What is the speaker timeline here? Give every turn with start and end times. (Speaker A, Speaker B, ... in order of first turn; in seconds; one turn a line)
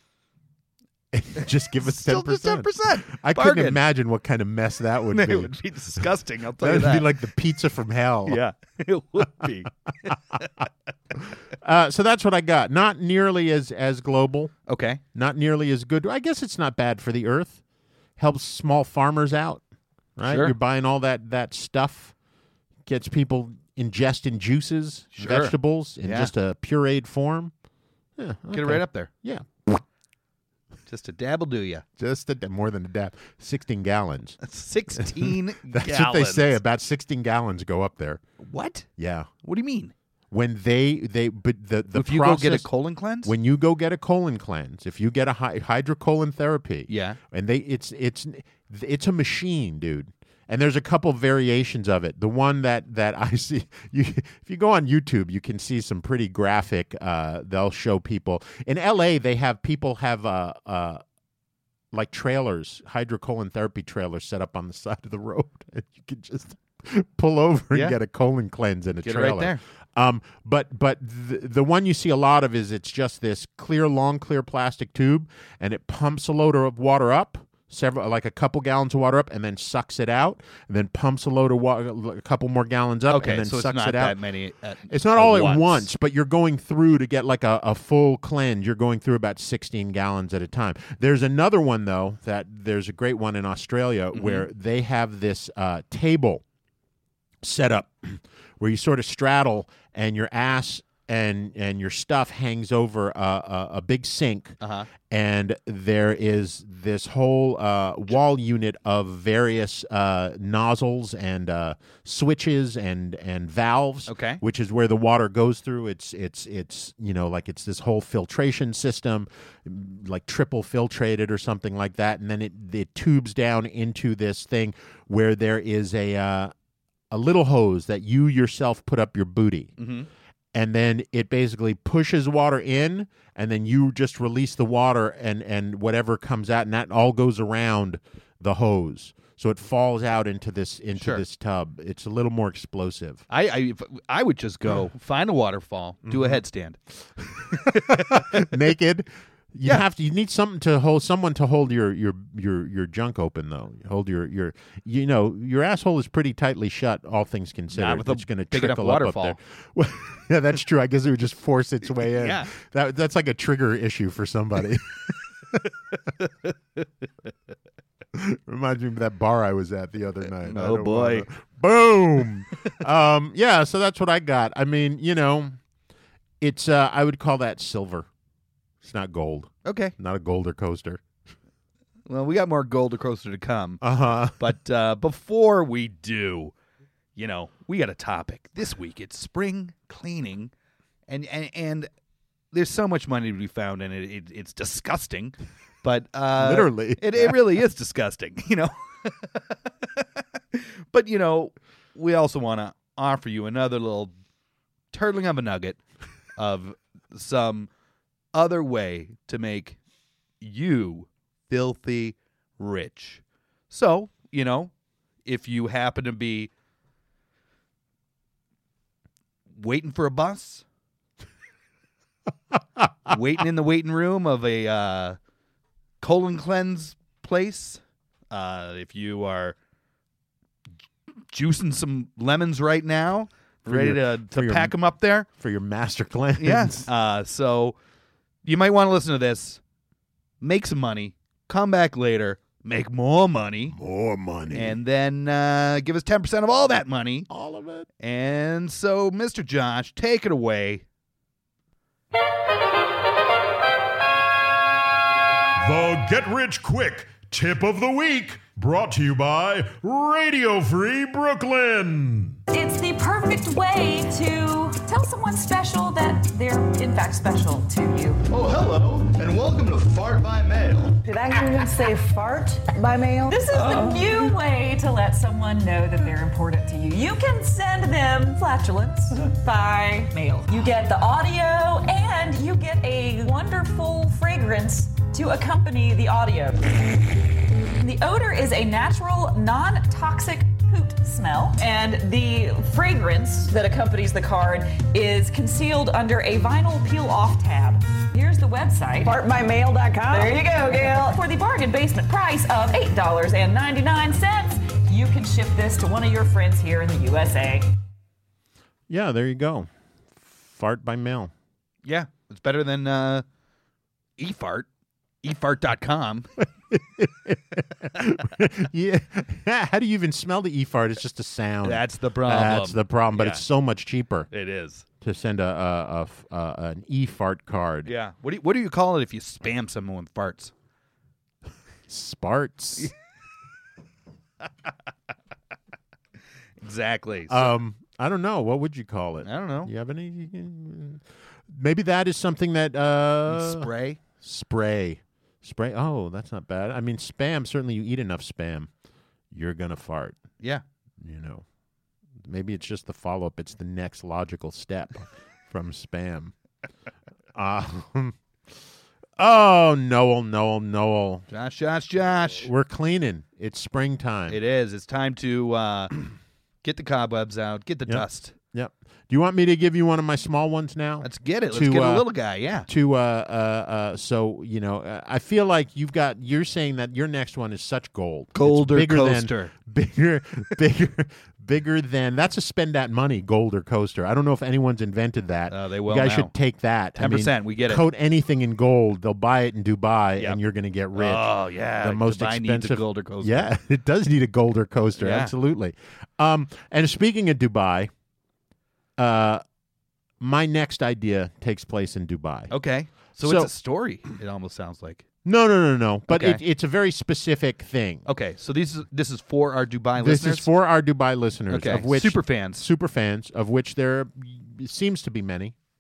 Speaker A: 1.1-8.4
Speaker B: 1.4-3.8
Speaker B: 5.1-7.1
Speaker B: 8.3-10.5
Speaker A: 11.3-14.5
Speaker B: 14.7-15.0
Speaker A: 15.1-17.6
Speaker A: 18.2-19.6
Speaker A: 20.1-22.1
Speaker B: 20.3-20.5
Speaker A: 22.9-27.5
Speaker B: 25.1-26.3
Speaker A: 28.2-29.8
Speaker B: 28.5-29.1
Speaker B: 30.9-31.9
Speaker A: 32.0-34.4
Speaker B: 34.4-36.6
Speaker A: 34.9-38.2
Speaker B: 38.4-38.9
Speaker A: 39.0-39.3
Speaker B: 39.4-39.9
Speaker A: 40.3-42.7
Speaker B: 41.9-43.3
Speaker A: 43.2-61.0
Speaker B: 46.9-47.2
Speaker A: 61.9-84.2
Speaker B: 69.0-69.6
Speaker B: 83.1-85.9
Speaker A: 84.9-96.4
Speaker B: 94.1-94.5
Speaker A: 97.4-126.5
Speaker B: 104.6-104.9
Speaker B: 114.1-114.4
Speaker A: 127.1-129.8
Speaker B: 129.8-130.1
Speaker A: 130.5-143.2
Speaker B: 141.0-141.2
Speaker B: 143.3-146.8
Speaker A: 146.1-146.4
Speaker B: 147.5-148.5
Speaker A: 147.5-165.6
Speaker B: 157.7-159.4
Speaker B: 162.1-162.5
Speaker B: 166.2-166.8
Speaker A: 168.1-175.6
Speaker B: 170.4-171.3
Speaker A: 176.4-178.1
Speaker A: 178.8-181.0
Speaker B: 179.6-179.9
Speaker B: 182.1-186.5
Speaker A: 183.8-184.4
Speaker B: 187.2-190.5
Speaker B: 191.1-191.9
Speaker B: 192.5-204.1
Speaker A: 196.3-197.4
Speaker B: 204.9-205.8
Speaker B: 206.4-207.7
Speaker B: 208.3-209.8
Speaker B: 210.4-214.7
Speaker B: 215.2-216.5
Speaker B: 219.6-220.6
Speaker B: 223.1-225.2
Speaker B: 226.0-229.6
Speaker B: 231.3-235.3
Speaker A: 233.7-234.8
Speaker A: 235.3-236.9
Speaker B: 236.4-237.8
Speaker B: 238.4-239.6
Speaker B: 240.4-243.8
Speaker A: 243.7-244.8
Speaker B: 244.5-247.3
Speaker A: 247.3-247.9
Speaker B: 248.0-250.8
Speaker C: 255.6-262.4
Speaker D: 262.5-268.2
Speaker E: 268.3-270.9
Speaker F: 271.0-274.3
Speaker D: 273.2-286.8
Speaker D: 287.8-299.2
Speaker F: 299.0-301.2
Speaker D: 300.1-307.7
Speaker A: 308.9-311.3
Speaker B: 311.8-313.2
Speaker B: 314.2-314.7
Speaker B: 315.2-316.3
Speaker A: 316.7-324.3
Speaker B: 321.6-323.4
Speaker B: 324.3-324.9
Speaker A: 325.0-327.9
Speaker B: 327.9-330.5
Speaker A: 331.9-332.9
Speaker B: 336.6-337.5
Speaker A: 337.3-348.7
Speaker B: 339.2-339.7
Speaker B: 343.3-344.0
Speaker A: 349.3-350.2
Speaker A: 351.0-351.4
Speaker A: 352.2-356.3
Speaker A: 357.4-358.1
Speaker A: 359.2-361.3
Speaker B: 361.3-362.5
Speaker A: 362.4-364.4
Speaker B: 364.3-365.9
Speaker B: 366.6-368.3
Speaker A: 367.9-372.1
Speaker B: 371.0-372.7
Speaker A: 372.6-397.9
Speaker B: 378.4-379.5
Speaker B: 385.5-386.3
Speaker B: 387.0-387.8
Speaker B: 390.9-393.5
Speaker B: 395.0-395.3
Speaker A: 399.0-399.4
Speaker A: 400.2-402.5
Speaker B: 402.5-405.1
Speaker A: 403.2-403.5
Speaker A: 405.2-408.1
Speaker B: 406.1-406.4
Speaker B: 408.1-410.5
Speaker A: 410.0-415.6
Speaker B: 411.5-412.7